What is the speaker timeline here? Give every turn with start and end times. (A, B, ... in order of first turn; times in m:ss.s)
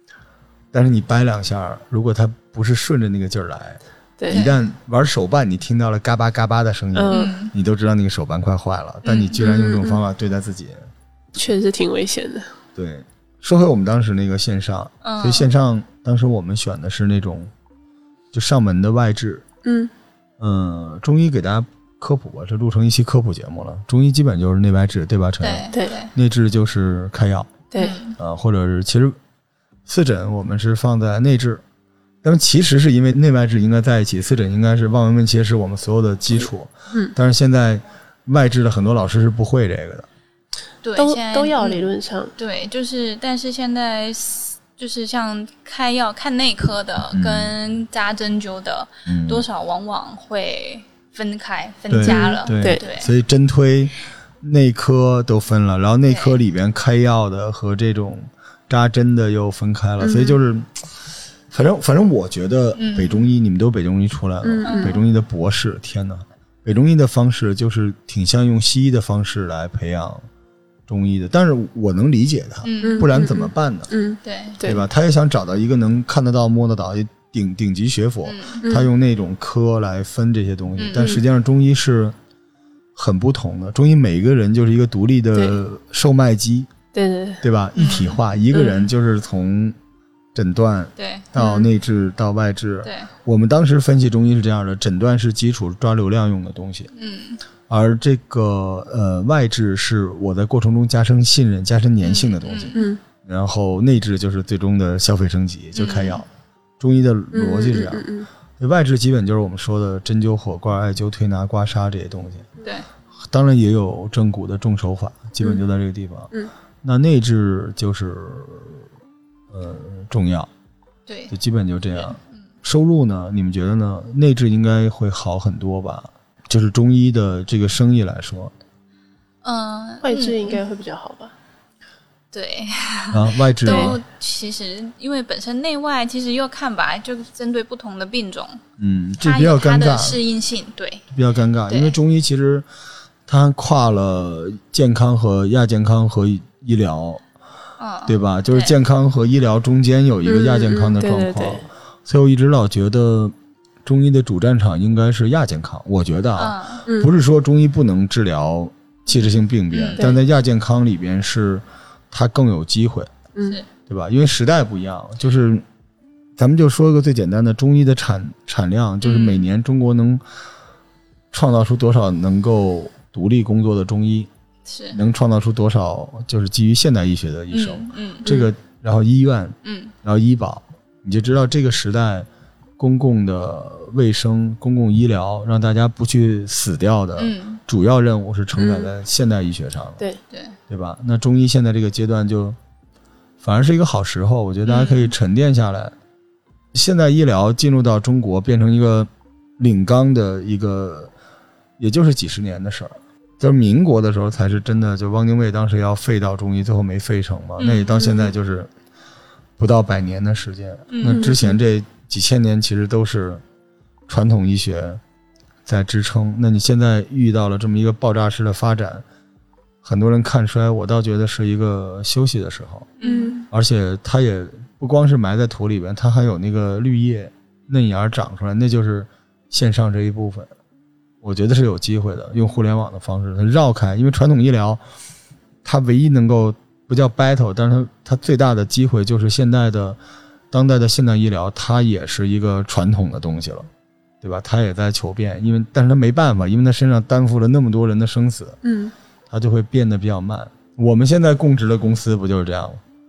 0:00.7-0:10.8 A
0:04.3-0:04.6 B
0:06.9-0:07.3 C
0:07.1-0:07.5 B
0:09.0-0:09.4 B
0:09.4-0:10.0 C
0:11.4-0:12.5 C
0:12.7-0:17.5 A
0:15.0-0:15.5 B
0:18.3-0:19.4 A
0:19.6-0:19.9 C
0:20.4-0:27.6 A
0:25.4-0:26.1 B
0:27.7-0:28.0 C
0:27.8-0:28.2 B
0:28.2-0:29.2 A
0:29.8-0:31.6 A
0:32.2-0:40.1 A
0:40.8-0:53.1 B
0:41.0-0:42.3 C
0:47.1-0:47.5 A
0:49.0-0:49.5 A
0:51.9-1:10.3 A
0:52.0-0:52.8 C
0:56.1-0:56.4 B
1:00.0-1:00.4 C
1:02.7-1:03.3 B
1:04.4-1:05.0 C
1:04.6-1:05.0 B
1:10.9-1:13.9 A
1:12.6-1:13.1 B
1:12.8-1:14.8 C
1:14.2-1:14.6 B
1:14.6-1:22.1 A
1:18.2-1:18.6 B
1:18.6-1:18.9 C
1:20.8-1:21.2 B
1:21.0-1:21.2 C
1:22.9-1:26.7 A
1:26.9-1:27.4 C
1:27.4-1:29.8 A
1:27.8-1:28.2 B
1:30.3-1:36.9 A
1:31.0-1:31.7 B
1:32.8-1:33.1 B
1:36.9-1:37.4 B
1:37.7-1:46.3 A
1:42.0-1:42.8 B
1:42.7-1:43.0 C
1:45.7-1:46.2 B
1:46.8-1:52.5 A
1:47.3-1:48.3 C
1:52.6-1:52.9 B
1:53.2-1:58.8 A
1:59.5-2:00.5 A
2:01.1-2:01.3 B
2:01.3-2:08.5 A
2:01.9-2:02.2 B
2:09.4-2:10.6 B
2:10.0-2:11.3 C
2:12.3-2:18.6 B
2:13.1-2:14.0 A
2:13.6-2:14.0 C
2:18.8-2:20.2 A
2:19.2-2:21.0 B
2:21.1-2:22.6 A
2:21.7-2:22.0 B
2:23.3-2:27.2 A
2:27.8-2:28.7 B
2:28.0-2:33.3 A
2:30.2-2:31.6 C
2:33.8-2:43.1 A
2:36.4-2:36.8 B
2:36.8-2:37.1 C
2:39.7-2:40.1 B
2:43.9-2:45.6 A
2:46.4-2:50.2 A
2:49.0-2:49.4 B
2:51.3-2:54.3 A
2:54.7-2:55.0 B
2:54.9-3:02.3 A
2:57.5-2:58.3 B
2:59.6-2:59.9 B
3:02.8-3:10.0 A
3:07.2-3:07.6 B
3:08.6-3:08.9 C
3:10.3-3:10.6 B
3:10.7-3:12.6 A
3:13.4-3:15.9 A
3:14.6-3:15.1 B
3:16.7-3:21.1 A
3:21.8-3:28.7 A
3:27.6-3:28.2 B
3:29.6-3:33.4 A
3:30.9-3:31.4 B
3:31.1-3:31.6 C
3:34.1-3:35.0 A
3:35.6-3:39.0 A
3:39.8-3:42.9 A
3:43.0-3:43.4 B
3:43.0-3:43.4 C
3:43.5-3:50.5 A
3:51.2-3:54.8 A
3:55.6-4:00.0 A
4:00.5-4:03.7 A
4:04.2-4:08.6 A
4:08.6-4:08.9 C
4:09.3-4:12.8 A